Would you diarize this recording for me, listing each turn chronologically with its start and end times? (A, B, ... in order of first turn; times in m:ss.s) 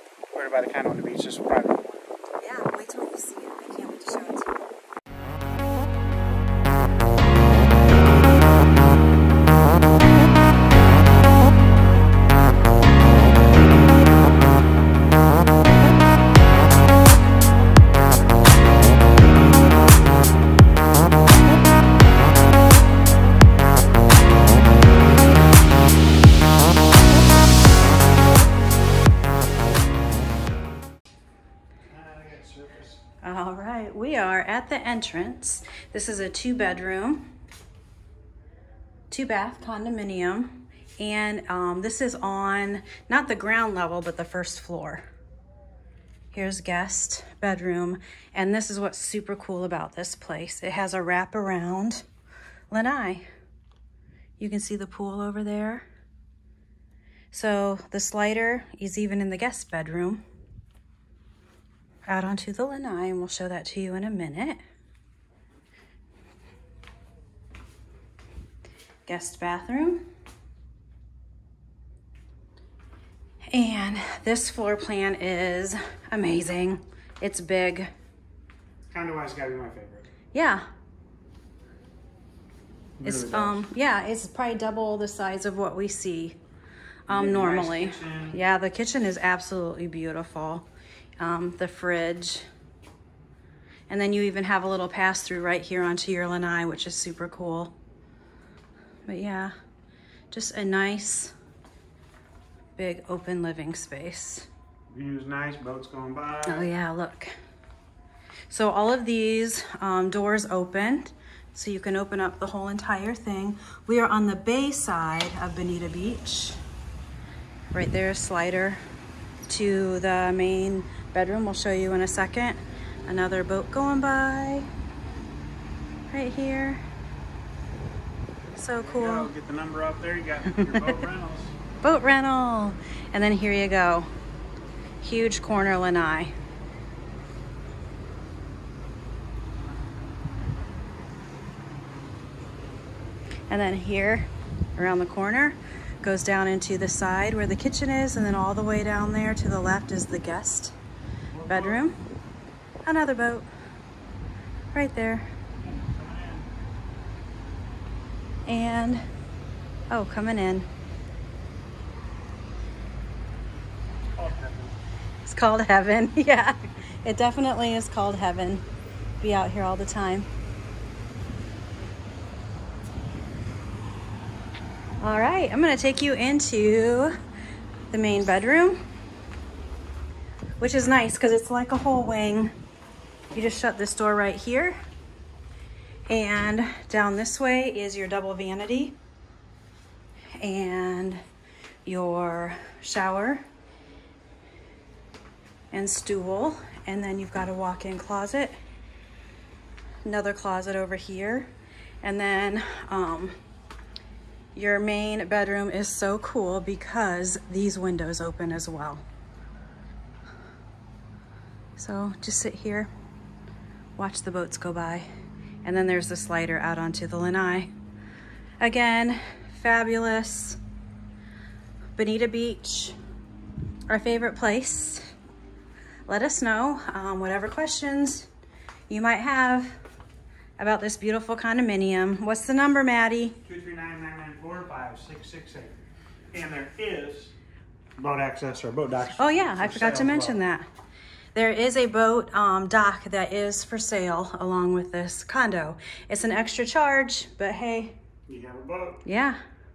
0:00.3-0:02.1 A
0:02.4-0:04.7 B
0:31.9-0:33.0 A
0:33.2-0:37.3 B
0:39.1-0:45.1 B
0:46.3-0:52.0 B
0:52.7-0:53.2 B
0:54.4-0:55.9 B
0:57.3-1:00.2 B
1:02.1-1:04.6 B
1:09.1-1:10.0 B
1:13.5-1:17.9 B
1:18.9-1:20.1 A
1:20.3-1:20.6 B
1:23.0-1:23.6 A
1:23.0-1:26.4 B
1:27.1-1:30.7 B
1:27.1-1:28.4 A
1:31.2-1:32.5 B
1:33.9-1:37.7 B
1:39.1-1:39.5 B
1:40.3-1:41.3 B
1:42.8-1:44.5 B
1:44.9-1:46.7 A
1:46.5-1:47.3 B
1:48.5-1:56.6 B
1:57.7-1:58.8 B
1:59.5-2:04.7 B
2:06.1-2:06.8 B
2:08.6-2:09.3 B
2:08.8-2:11.6 A
2:11.8-2:14.1 B
2:15.0-2:16.3 B
2:23.5-2:30.8 B
2:31.3-2:31.9 A
2:31.5-2:32.0 B
2:32.8-2:33.5 B
2:34.7-2:35.3 B
2:35.6-2:36.5 A
2:38.5-2:39.0 B
2:39.9-2:40.7 B
2:44.2-2:44.8 A
2:45.2-2:48.6 B
2:49.2-2:50.3 B
2:55.0-2:57.1 B
2:57.9-2:58.8 B
3:00.6-3:02.5 B
3:03.3-3:04.8 B
3:06.1-3:09.0 B
3:10.4-3:11.2 B
3:11.8-3:13.4 B
3:15.7-3:18.6 B
3:20.0-3:21.5 B
3:22.0-3:23.4 B
3:24.6-3:29.0 B
3:31.8-3:32.9 B
3:34.0-3:35.1 B
3:35.6-3:37.7 B
3:38.6-3:40.6 B
3:42.0-3:43.0 B
3:43.9-3:45.0 B
3:46.1-3:48.3 B
3:48.9-3:49.8 B
3:50.6-3:53.4 B
3:53.4-3:55.8 A
3:56.3-3:57.4 A
3:58.0-4:00.4 A
3:59.2-4:00.7 B
4:01.4-4:08.0 B
4:08.3-4:09.0 A
4:09.0-4:09.4 B